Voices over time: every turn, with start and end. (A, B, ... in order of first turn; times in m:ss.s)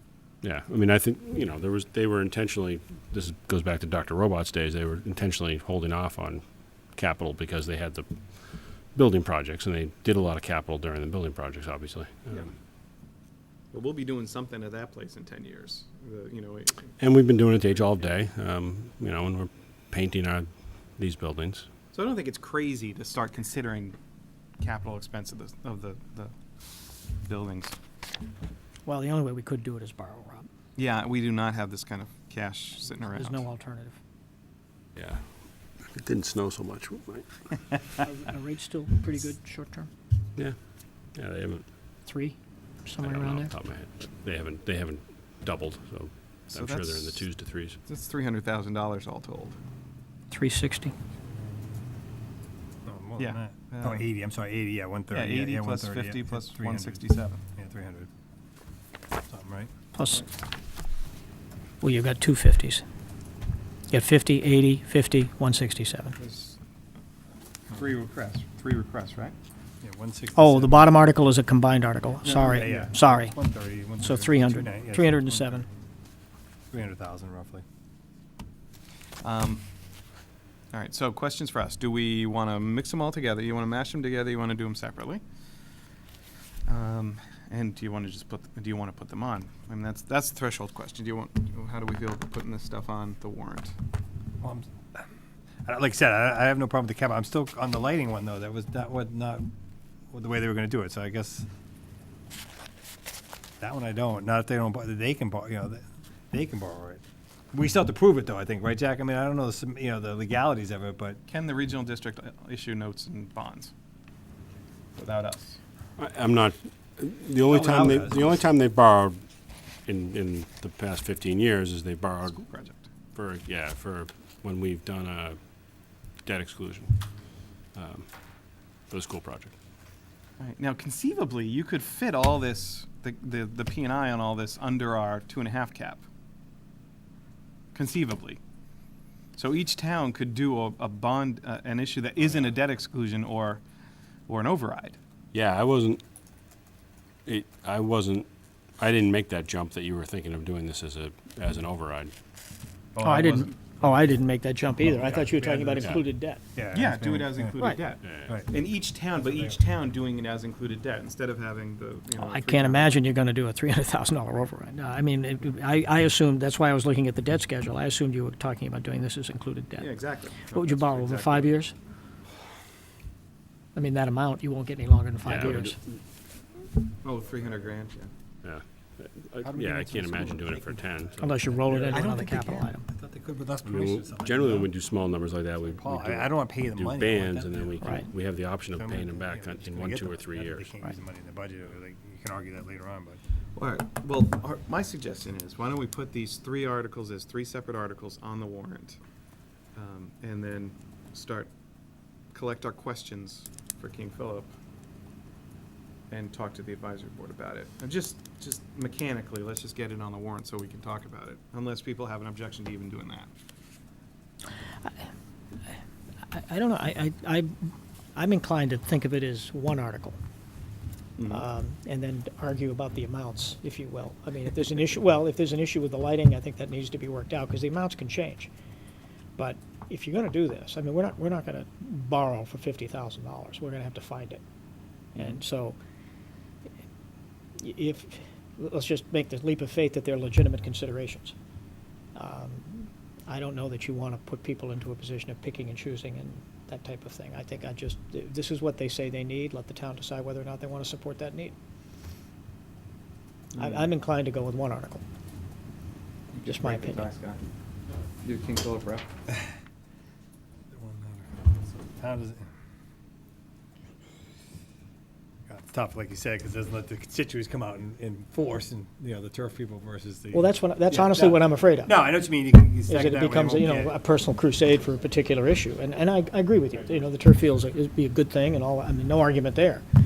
0:00.4-0:12.4 A
0:12.3-0:12.5 B
0:13.7-0:18.1 B
0:17.0-0:21.7 A
0:21.9-0:24.0 B
0:24.6-0:27.8 B
0:28.8-0:30.5 C
0:30.8-0:33.5 B
0:32.9-0:34.0 C
0:35.0-0:37.5 A
0:38.0-0:39.9 C
0:40.4-0:41.8 A
0:42.1-0:43.5 C
0:43.0-0:47.8 A
0:46.5-0:47.3 B
0:47.8-0:49.6 B
0:50.3-0:50.9 C
0:51.3-0:51.6 B
0:52.8-0:57.0 D
0:53.2-0:54.0 B
0:55.1-0:57.4 B
0:57.6-0:58.1 D
0:59.3-0:59.7 D
0:59.9-1:00.2 C
1:01.8-1:02.8 C
1:03.9-1:06.2 C
1:06.2-1:06.6 B
1:07.7-1:09.4 B
1:09.8-1:10.9 D
1:10.4-1:13.4 C
1:12.2-1:12.9 B
1:12.4-1:15.7 D
1:14.0-1:15.7 C
1:16.7-1:17.6 D
1:19.2-1:19.6 B
1:20.7-1:25.2 B
1:26.7-1:33.8 B
1:34.4-1:35.1 D
1:35.6-1:39.5 D
1:40.1-1:41.5 D
1:43.6-1:51.2 D
1:51.3-1:53.7 B
1:55.0-1:55.6 B
1:56.0-1:59.2 A
1:57.5-1:58.4 D
1:59.8-2:02.5 A
2:02.4-2:02.9 B
2:03.1-2:05.4 A
2:06.2-2:07.0 A
2:07.7-2:08.1 A
2:08.9-2:09.6 A
2:10.4-2:16.0 B
2:17.8-2:18.4 B
2:19.4-2:23.6 B
2:24.3-2:25.0 B
2:25.3-2:26.0 A
2:27.2-2:32.1 A
2:32.9-2:34.2 D
2:33.0-2:36.4 C
2:34.8-2:36.0 D
2:36.6-2:37.6 D
2:36.7-2:43.0 B
2:38.0-2:38.4 A
2:38.1-2:38.5 D
2:42.2-2:51.8 C
2:49.8-2:51.6 B
2:53.8-2:55.8 C
2:55.2-2:55.8 A
2:57.0-2:58.1 B
2:58.4-3:01.8 A
2:59.4-3:01.8 D
3:01.2-3:02.8 C
3:01.7-3:02.7 B
3:02.9-3:04.7 D
3:03.6-3:10.7 A
3:05.7-3:07.8 D
3:08.7-3:13.2 D
3:13.6-3:19.0 B
3:19.8-3:21.6 B
3:22.3-3:24.5 B
3:26.1-3:33.3 B
3:36.3-3:37.5 C
3:38.2-3:40.2 C
3:41.2-3:41.5 B
3:41.3-3:48.5 C
3:49.4-3:54.4 C
3:55.2-3:55.4 B
3:55.2-3:55.8 C
3:57.6-4:01.4 C
4:02.2-4:11.6 C
4:13.5-4:15.0 C
4:13.6-4:13.9 B
4:16.3-4:17.4 B
4:16.4-4:17.1 C
4:18.2-4:19.1 B
4:20.7-4:22.5 D
4:25.5-4:33.9 D
4:30.3-4:32.0 C
4:32.9-4:39.8 C